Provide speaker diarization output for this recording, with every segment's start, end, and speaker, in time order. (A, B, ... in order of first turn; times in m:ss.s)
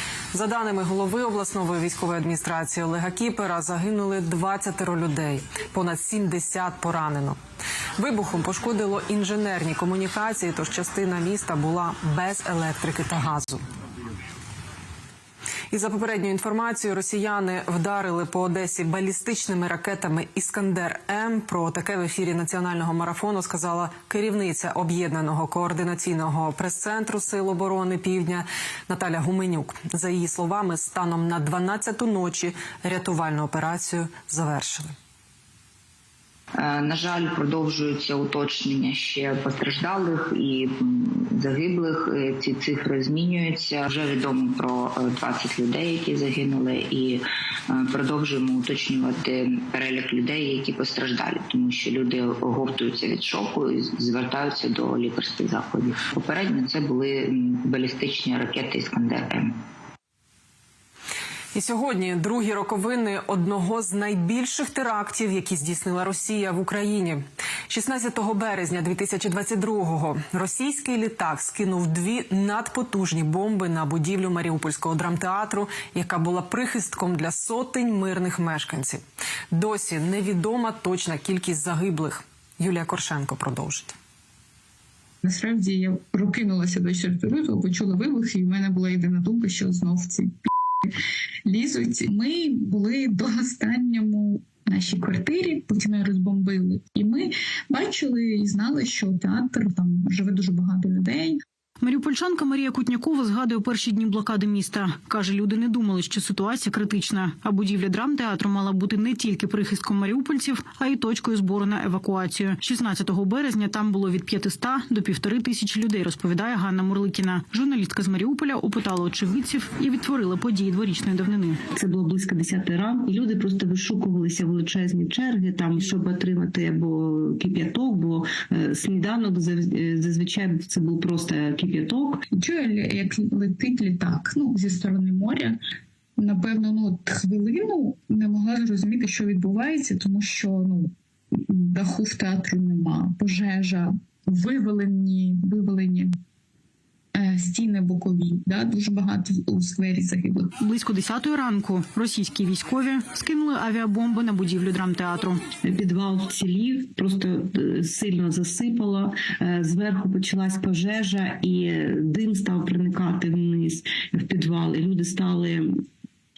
0:00.3-0:07.4 A
0:08.0-0:13.6 A
0:15.7-0:34.9 A
0:36.6-0:59.5 B
1:01.5-1:24.0 A
1:25.2-1:30.9 C
1:31.4-1:41.4 C
1:41.8-2:01.6 D
2:01.8-2:12.2 E
2:12.3-2:15.6 C
2:16.2-2:26.1 C
2:27.1-2:30.5 C
2:30.6-2:35.4 D
2:35.6-2:45.8 E